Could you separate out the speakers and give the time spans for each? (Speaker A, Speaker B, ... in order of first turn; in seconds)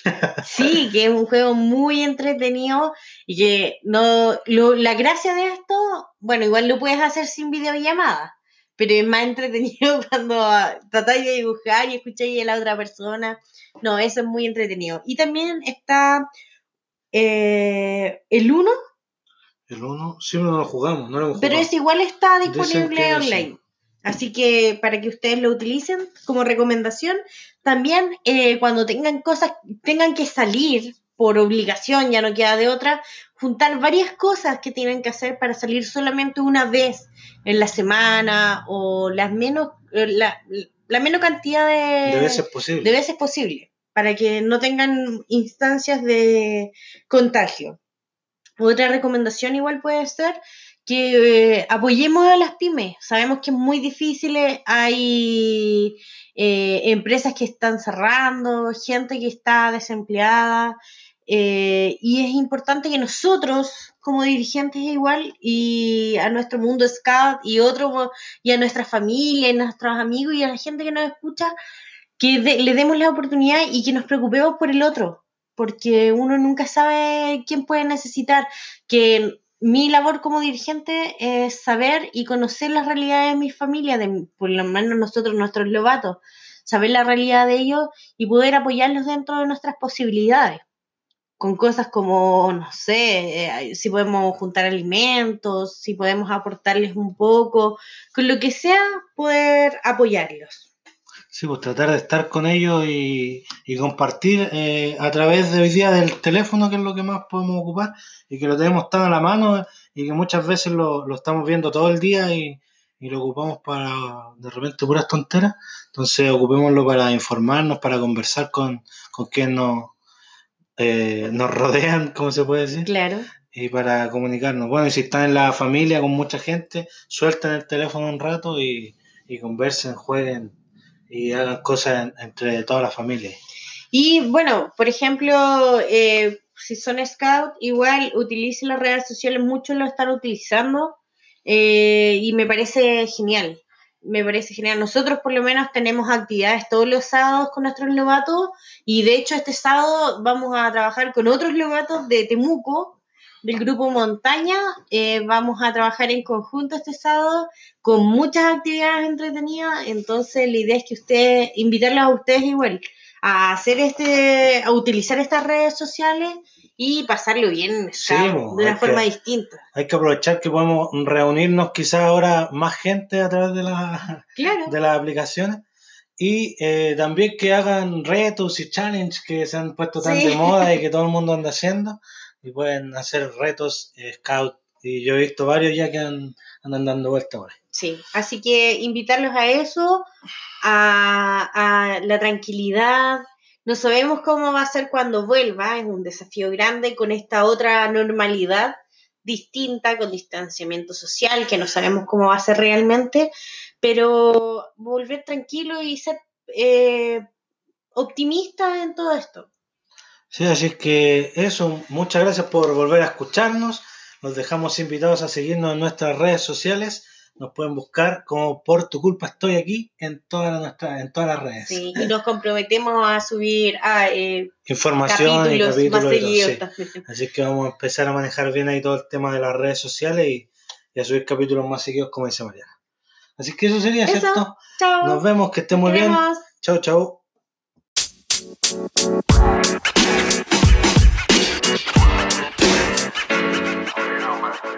Speaker A: 0.4-16.3, 17.1-18.8, 21.4-47.8, 48.6-71.5, 72.2-90.6, 91.4-100.7, 122.8-123.3, 133.9-169.6, 174.4-174.7, 180.0-180.8, 187.7-190.1, 190.6-203.3, 203.8-207.2, 207.9-209.5, 221.7-224.5, 225.1-227.1, 234.1-236.5
Speaker B: 19.7-21.7, 22.5-23.6, 42.1-42.9, 101.3-119.9, 120.8-122.9, 123.5-130.6, 131.1-133.4, 168.0-169.1, 169.8-175.6, 176.2-187.6, 210.3-222.1, 224.7-232.7, 233.4-237.2